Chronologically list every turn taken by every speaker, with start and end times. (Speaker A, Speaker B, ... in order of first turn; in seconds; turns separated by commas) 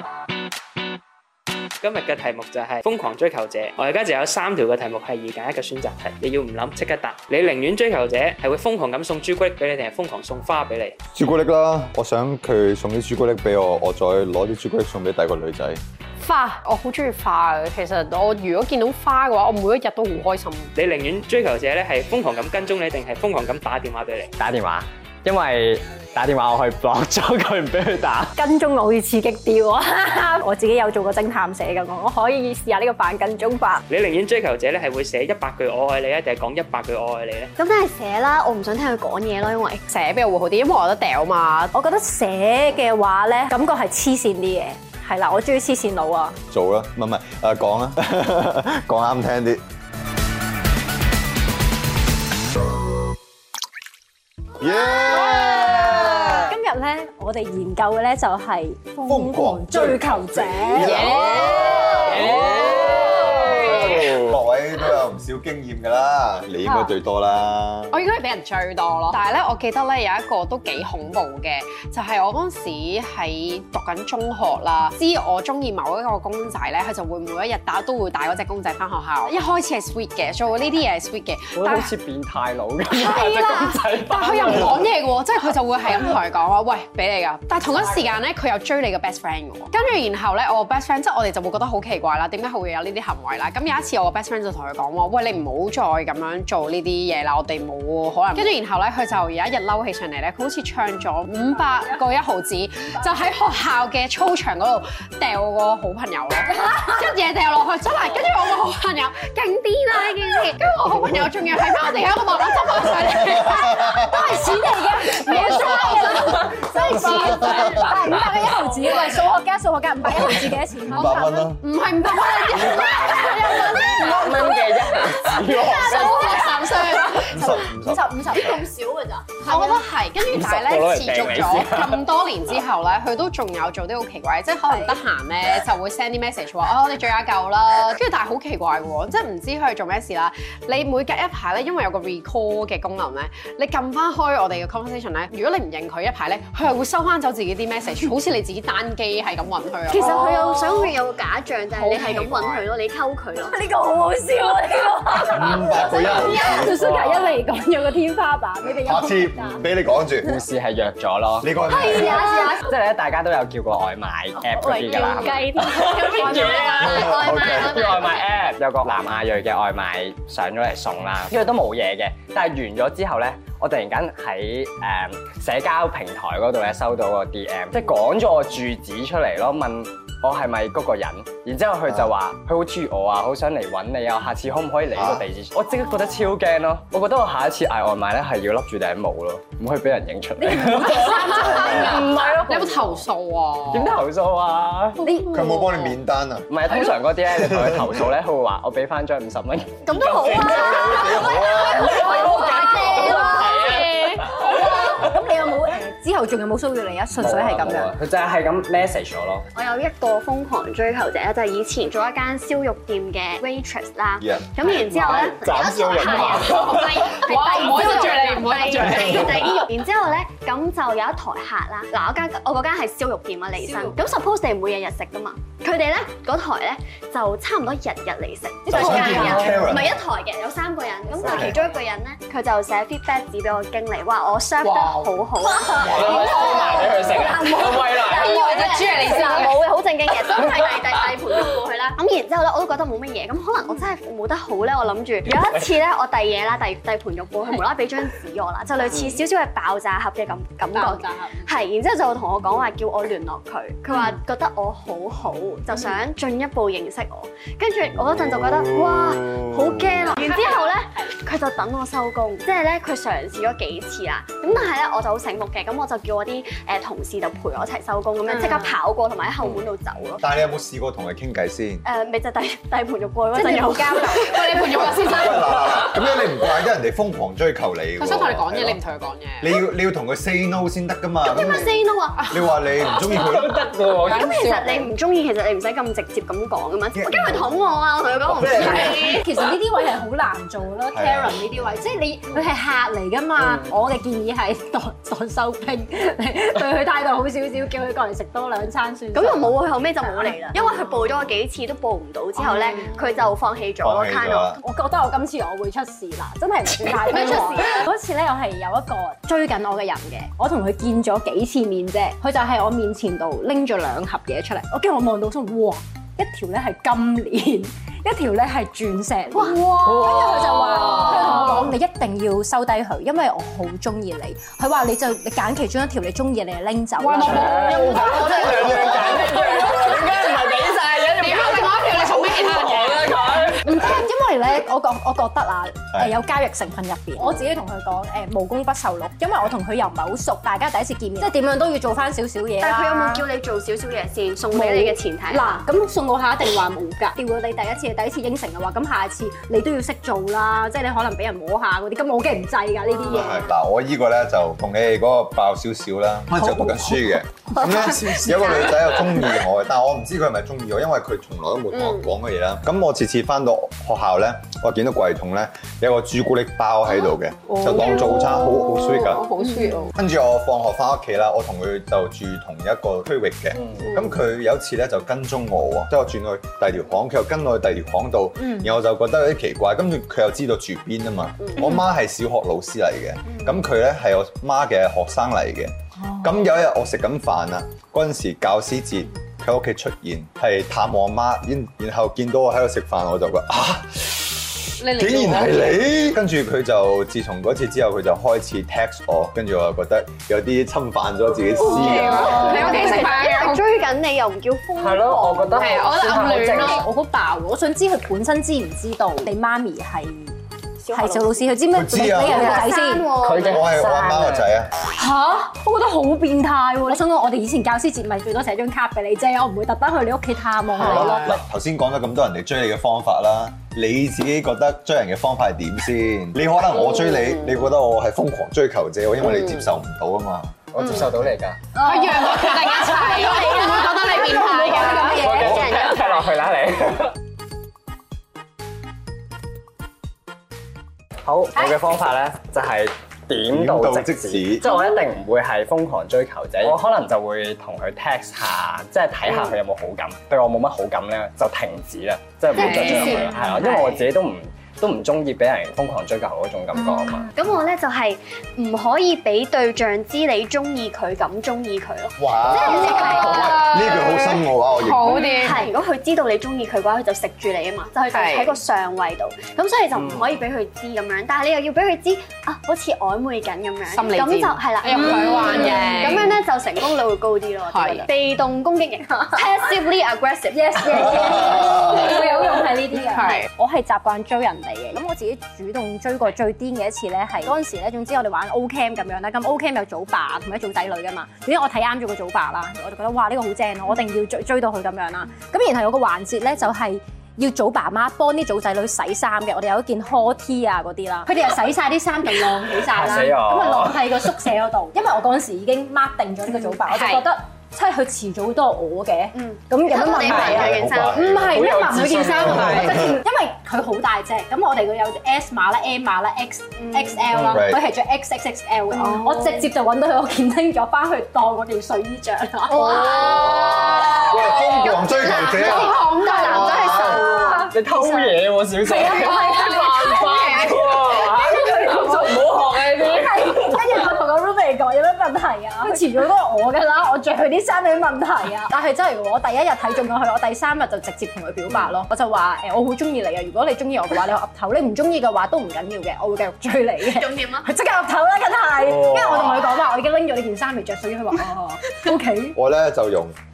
Speaker A: 1.8-11.0, Speaker B: 11.2-15.8, Speaker C: 16.2-20.7, Speaker A: 20.8-24.3, Speaker D: 24.4-28.4, Speaker E: 28.4-33.8, Speaker A: 33.9-37.5, Speaker F: 37.6-39.8, Speaker C: 39.9-41.7, Speaker E: 41.7-46.4, Speaker B: 46.5-49.6, Speaker B: 54.6-56.4, Speaker E: 55.0-61.1, Speaker B: 59.0-68.0, Speaker D: 61.1-61.5, Speaker C: 61.3-62.6, Speaker D: 62.0-63.5, Speaker C: 63.3-64.0, Speaker C: 67.9-81.9, Speaker D: 81.5-84.9, Speaker C: 82.9-117.9, Speaker E: 114.0-121.5, Speaker B: 117.2-117.7, Speaker C: 118.8-119.2, Speaker B: 120.1-121.6, Speaker C: 121.0-127.5, Speaker D: 122.5-123.1, Speaker E: 123.5-124.3, Speaker D: 123.7-126.6, Speaker E: 125.7-128.8, Speaker B: 127.3-128.7, Speaker C: 129.4-150.9, Speaker E: 129.4-129.8, Speaker D: 130.2-132.1, Speaker E: 134.7-135.0, Speaker F: 149.9-153.6, Speaker C: 151.7-152.6, Speaker E: 153.4-159.6, Speaker B: 155.3-156.8, Speaker D: 156.7-157.4, Speaker B: 158.7-160.4, Speaker D: 160.2-193.0, Speaker B: 161.4-162.2, Speaker E: 161.7-162.7, Speaker E: 164.4-166.9, Speaker F: 165.9-168.4, Speaker B: 166.8-168.0, Speaker B: 184.9-185.2, Speaker C: 190.5-194.0, Speaker B: 191.3-191.8, Speaker D: 193.7-195.0, Speaker E: 195.0-195.5, Speaker C: 195.2-195.7, Speaker B: 195.3-196.5, Speaker D: 196.5-204.5, Speaker B: 197.3-197.9, Speaker F: 199.9-201.0, Speaker B: 200.7-201.9, Speaker F: 201.9-203.7, Speaker C: 201.9-204.2, Speaker E: 204.2-207.9, Speaker D: 207.2-209.5, Speaker F: 209.5-270.2, Speaker B: 214.2-214.5, Speaker D: 214.8-217.1, Speaker C: 216.0-219.6, Speaker E: 218.0-218.4, Speaker E: 228.7-229.4, Speaker B: 228.7-230.0, Speaker D: 231.2-231.6, Speaker C: 234.6-235.1, Speaker D: 235.5-238.7, Speaker B: 235.9-236.2, Speaker C: 236.1-239.6, Speaker D: 245.3-245.6, Speaker E: 250.7-251.4, Speaker B: 258.2-259.9, Speaker E: 268.3-268.7, Speaker B: 270.2-271.9, Speaker F: 271.8-275.0, Speaker E: 273.3-274.6, Speaker C: 274.2-276.1, Speaker B: 274.9-278.8, Speaker C: 278.0-279.6, Speaker B: 279.4-281.8, Speaker F: 281.2-282.3, Speaker C: 282.2-282.5, Speaker B: 282.3-283.7, Speaker D: 283.1-284.4, Speaker C: 283.8-284.9, Speaker F: 284.0-289.3, Speaker B: 286.9-287.6, Speaker B: 288.4-288.9, Speaker D: 288.4-288.8, Speaker E: 288.9-299.6, Speaker B: 290.9-291.7, Speaker F: 299.1-304.6, Speaker E: 300.2-300.5, Speaker B: 303.8-304.6, Speaker E: 304.6-328.7, Speaker F: 307.1-307.8, Speaker C: 307.2-307.7, Speaker C: 319.4-321.7, Speaker D: 319.9-321.5, Speaker C: 327.0-333.5, Speaker D: 327.2-333.8, Speaker B: 328.6-329.2, Speaker E: 333.6-343.3, Speaker F: 342.6-345.6, Speaker E: 344.5-353.5, Speaker B: 353.1-369.3, Speaker C: 367.5-369.9, Speaker B: 369.9-402.7, Speaker D: 373.6-373.9, Speaker F: 381.4-381.7, Speaker C: 394.8-395.8, Speaker C: 401.6-403.7, Speaker F: 401.6-405.9, Speaker D: 404.8-406.9, Speaker C: 405.5-406.8, Speaker E: 406.4-410.3, Speaker F: 410.8-411.3, Speaker E: 410.9-413.1, Speaker B: 411.7-412.6, Speaker F: 412.1-413.7, Speaker D: 413.2-414.5, Speaker B: 413.4-414.7, Speaker E: 415.0-421.4, Speaker B: 420.8-431.2, Speaker C: 426.8-427.1, Speaker D: 430.7-431.6, Speaker C: 431.8-435.3, Speaker E: 431.9-433.6, Speaker F: 433.1-436.4, Speaker E: 434.5-435.6, Speaker D: 434.8-437.1, Speaker D: 441.2-457.3, Speaker B: 443.5-444.7, Speaker C: 452.5-454.0, Speaker F: 457.3-463.7, Speaker B: 462.2-465.2, Speaker C: 462.6-465.6, Speaker F: 465.1-481.8, Speaker C: 468.1-468.6, Speaker D: 469.9-470.4, Speaker C: 473.9-476.4, Speaker C: 477.7-478.1, Speaker E: 480.5-523.3, Speaker C: 483.0-483.5, Speaker D: 502.8-504.3, Speaker C: 506.8-507.2, Speaker F: 509.4-511.3, Speaker D: 510.2-510.8, Speaker B: 510.3-511.6, Speaker D: 511.3-513.1, Speaker B: 512.6-513.2, Speaker F: 516.8-517.1, Speaker B: 517.3-517.8, Speaker C: 522.7-527.6, Speaker F: 522.7-527.6, Speaker B: 523.5-527.2, Speaker E: 526.2-552.6, Speaker D: 527.7-533.7, Speaker C: 529.0-531.1, Speaker F: 547.0-547.7, Speaker D: 548.9-549.7, Speaker B: 552.5-553.4